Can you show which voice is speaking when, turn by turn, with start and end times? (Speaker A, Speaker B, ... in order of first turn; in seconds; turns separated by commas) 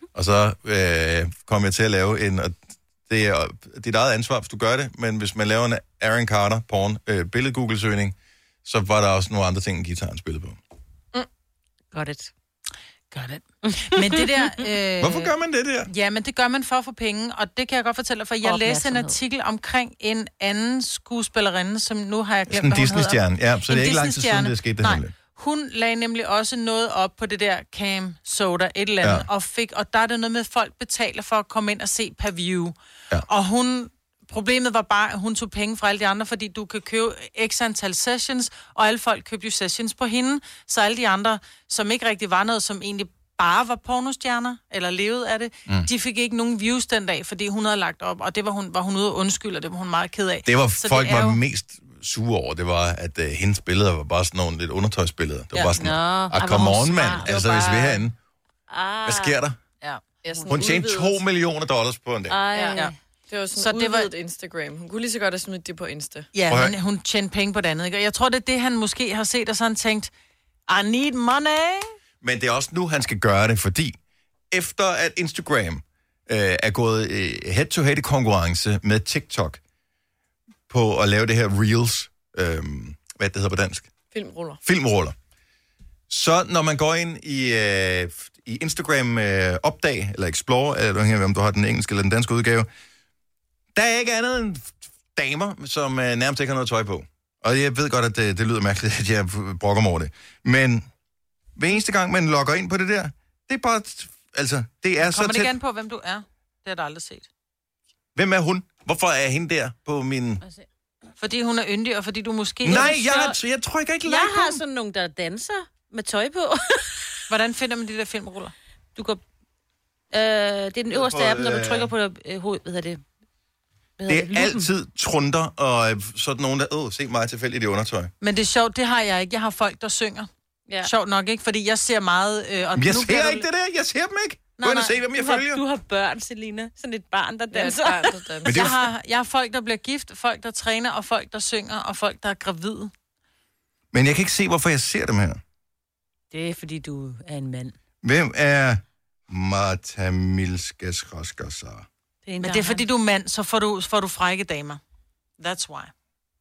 Speaker A: 0.1-10.6, Speaker B: 11.9-12.3, Speaker C: 13.1-15.3, Speaker B: 13.6-14.6, Speaker A: 15.0-15.9, Speaker C: 15.9-32.7, Speaker B: 18.4-19.2, Speaker A: 22.5-25.1, Speaker C: 33.3-51.4, Speaker A: 50.4-58.1, Speaker B: 55.5-58.0, Speaker B: 58.7-60.8, Speaker A: 59.0-59.6, Speaker D: 60.2-61.1, Speaker A: 60.5-62.4, Speaker B: 62.3-62.9, Speaker D: 62.5-66.3, Speaker C: 63.5-64.1, Speaker C: 66.3-70.1, Speaker A: 66.5-66.7, Speaker C: 70.7-71.9, Speaker A: 72.2-74.0, Speaker A: 74.5-79.6, Speaker A: 80.7-83.9, Speaker D: 84.1-84.6, Speaker A: 84.6-85.1, Speaker A: 86.1-92.7, Speaker A: 93.7-100.8, Speaker A: 101.6-105.5, Speaker C: 105.0-107.3, Speaker A: 108.1-110.4, Speaker C: 111.2-113.3, Speaker A: 112.6-114.6, Speaker B: 112.7-113.3, Speaker B: 114.0-117.0, Speaker C: 117.3-118.5, Speaker B: 119.0-119.2, Speaker B: 120.1-123.0, Speaker A: 120.9-121.9, Speaker B: 124.0-124.7, Speaker A: 124.1-128.1, Speaker C: 128.2-130.3, Speaker C: 130.8-133.4, Speaker A: 132.8-135.6, Speaker C: 134.6-134.9, Speaker B: 135.1-138.3, Speaker D: 137.5-138.7, Speaker A: 138.4-138.7, Speaker C: 138.5-142.9, Speaker A: 143.9-145.4, Speaker B: 146.3-147.8, Speaker A: 148.0-151.9, Speaker B: 152.2-152.8, Speaker C: 152.4-154.8, Speaker C: 155.4-155.9